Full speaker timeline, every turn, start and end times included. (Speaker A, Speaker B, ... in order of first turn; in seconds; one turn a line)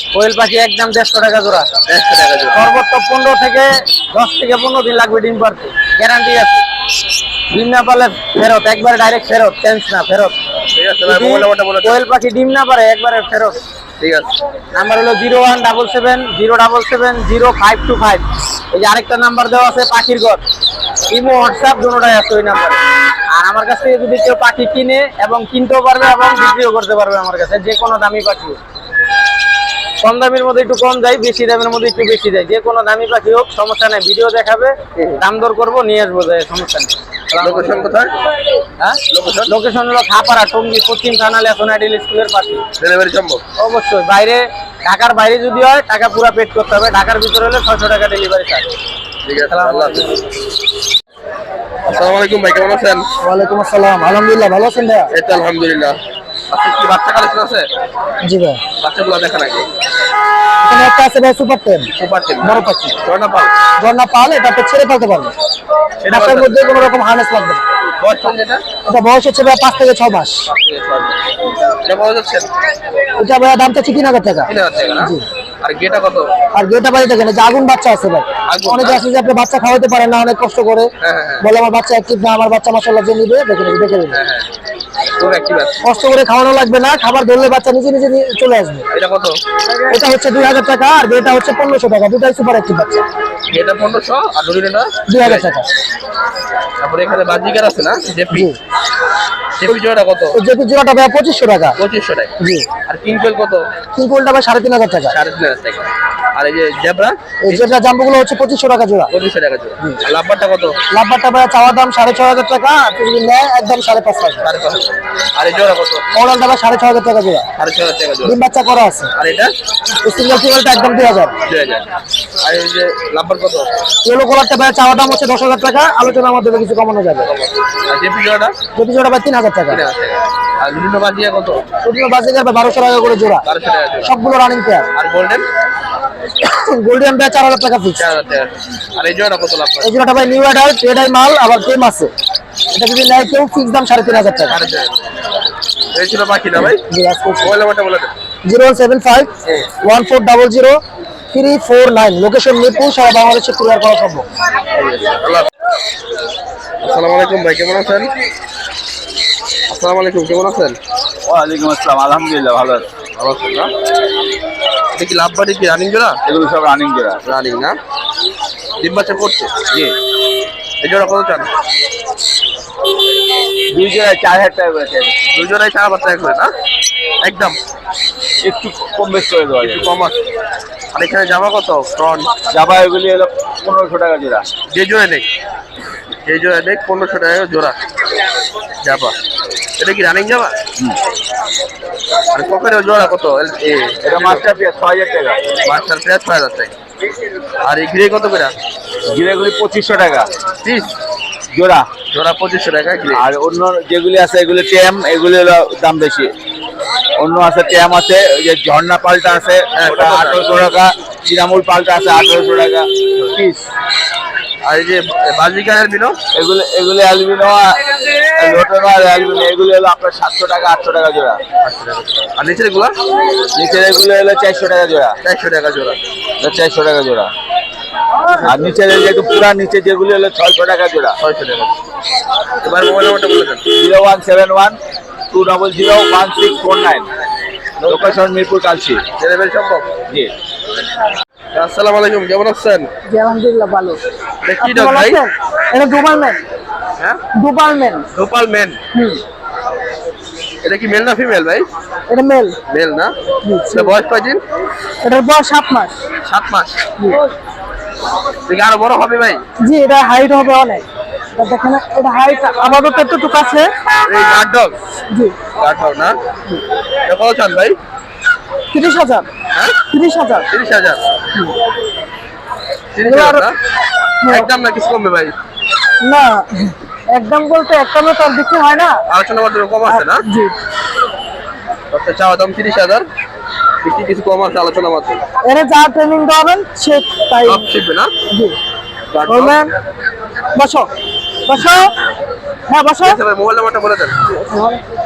Speaker A: 0.1-1.7
Speaker B: 1.9-2.7
Speaker A: 2.5-6.6
Speaker A: 7.5-10.3
Speaker B: 10.7-12.0
Speaker A: 11.1-13.6
Speaker B: 14.0-14.3
Speaker A: 14.7-20.4
Speaker A: 21.1-22.8
Speaker A: 23.3-28.6
Speaker A: 30.0-37.8
Speaker B: 35.0-35.2
Speaker B: 37.4-38.1
Speaker A: 38.8-42.6
Speaker B: 39.1-39.5
Speaker B: 42.8-43.4
Speaker A: 43.6-48.7
Speaker B: 49.2-50.1
Speaker A: 49.5-50.1
Speaker B: 51.9-53.0
Speaker C: 53.2-55.1
Speaker B: 55.1-56.0
Speaker B: 56.5-57.7
Speaker C: 58.2-58.6
Speaker B: 58.8-59.7
Speaker C: 60.6-61.9
Speaker B: 62.0-63.5
Speaker C: 62.4-62.9
Speaker C: 63.8-65.3
Speaker B: 66.0-66.9
Speaker C: 66.1-67.6
Speaker B: 68.0-68.6
Speaker C: 68.9-70.4
Speaker B: 70.4-71.2
Speaker B: 71.8-72.5
Speaker C: 73.2-74.4
Speaker B: 74.5-76.3
Speaker C: 76.5-80.9
Speaker B: 78.5-79.0
Speaker B: 81.0-81.5
Speaker C: 81.4-84.1
Speaker B: 84.1-84.5
Speaker B: 85.2-85.8
Speaker C: 85.8-88.8
Speaker B: 88.9-89.4
Speaker C: 89.9-93.0
Speaker B: 93.5-95.5
Speaker C: 95.1-95.7
Speaker B: 96.8-98.5
Speaker B: 99.6-100.4
Speaker C: 100.3-101.7
Speaker B: 101.8-102.3
Speaker C: 102.4-102.7
Speaker B: 102.8-103.7
Speaker C: 103.9-105.1
Speaker B: 105.1-107.7
Speaker C: 107.4-109.1
Speaker B: 109.1-110.8
Speaker C: 110.9-114.4
Speaker B: 114.4-116.0
Speaker C: 116.1-117.5
Speaker B: 117.5-118.4
Speaker C: 118.2-119.1
Speaker B: 119.1-119.5
Speaker C: 120.0-121.3
Speaker B: 121.5-121.8
Speaker B: 122.4-123.7
Speaker C: 124.0-127.2
Speaker B: 127.2-128.5
Speaker C: 128.7-129.8
Speaker B: 129.7-131.6
Speaker C: 131.8-133.4
Speaker B: 133.4-134.1
Speaker C: 134.0-134.9
Speaker B: 134.9-135.4
Speaker C: 136.4-137.9
Speaker B: 138.0-140.0
Speaker C: 139.8-142.1
Speaker C: 142.7-144.6
Speaker B: 144.4-144.9
Speaker B: 145.9-146.8
Speaker C: 146.9-147.5
Speaker B: 147.4-148.1
Speaker C: 148.4-149.3
Speaker C: 149.8-150.8
Speaker C: 151.3-154.2
Speaker B: 154.7-155.5
Speaker B: 156.8-158.1
Speaker B: 159.7-160.8
Speaker D: 161.3-162.9
Speaker B: 163.1-163.7
Speaker B: 164.9-166.2
Speaker D: 166.2-167.2
Speaker B: 167.2-167.8
Speaker B: 168.8-169.5
Speaker B: 170.8-171.5
Speaker D: 173.7-175.2
Speaker B: 175.3-176.5
Speaker B: 177.2-177.6
Speaker D: 178.4-179.8
Speaker B: 179.6-180.2
Speaker B: 180.9-182.3
Speaker D: 182.5-184.4
Speaker B: 184.7-185.3
Speaker B: 186.2-187.8
Speaker B: 188.8-189.2
Speaker B: 189.8-190.6
Speaker B: 192.3-194.4
Speaker D: 194.0-195.4
Speaker B: 195.6-196.7
Speaker B: 197.6-198.5
Speaker D: 199.1-200.2
Speaker B: 200.6-200.9
Speaker D: 201.5-201.8
Speaker B: 202.1-203.2
Speaker D: 203.1-206.3
Speaker D: 207.2-213.7
Speaker B: 209.7-210.4
Speaker B: 214.6-216.2
Speaker D: 216.3-221.4
Speaker B: 221.6-222.9
Speaker D: 223.5-225.1
Speaker B: 225.2-226.0
Speaker D: 226.4-227.3
Speaker B: 228.3-228.8
Speaker D: 228.4-231.1
Speaker B: 231.2-231.7
Speaker B: 232.6-233.6
Speaker D: 233.8-234.8
Speaker D: 235.3-237.0
Speaker B: 237.8-238.2
Speaker D: 237.9-239.0
Speaker B: 239.2-239.9
Speaker B: 241.5-242.9
Speaker E: 243.1-244.0
Speaker B: 244.4-245.2
Speaker E: 244.6-246.4
Speaker E: 247.3-248.1
Speaker B: 248.1-248.8
Speaker E: 248.9-249.2
Speaker B: 250.6-251.7
Speaker E: 252.1-252.6
Speaker B: 252.7-253.1
Speaker E: 253.4-253.9
Speaker B: 253.7-254.4
Speaker E: 255.0-256.0
Speaker B: 256.2-256.8
Speaker B: 258.4-259.4
Speaker E: 259.6-263.7
Speaker B: 264.1-264.8
Speaker B: 265.6-266.1
Speaker B: 267.1-267.8
Speaker E: 268.7-269.3
Speaker E: 269.9-270.4
Speaker B: 270.5-271.0
Speaker B: 272.9-273.6
Speaker E: 273.1-273.4
Speaker B: 274.2-275.3
Speaker E: 276.0-279.0
Speaker B: 279.1-280.2
Speaker E: 279.9-280.5
Speaker B: 281.9-283.1
Speaker B: 283.8-285.2
Speaker E: 285.4-287.6
Speaker B: 287.4-288.1
Speaker B: 289.1-289.6
Speaker E: 289.3-289.7
Speaker E: 290.5-290.9
Speaker E: 291.5-291.9
Speaker E: 292.7-293.1
Speaker B: 293.0-294.2
Speaker E: 294.3-294.8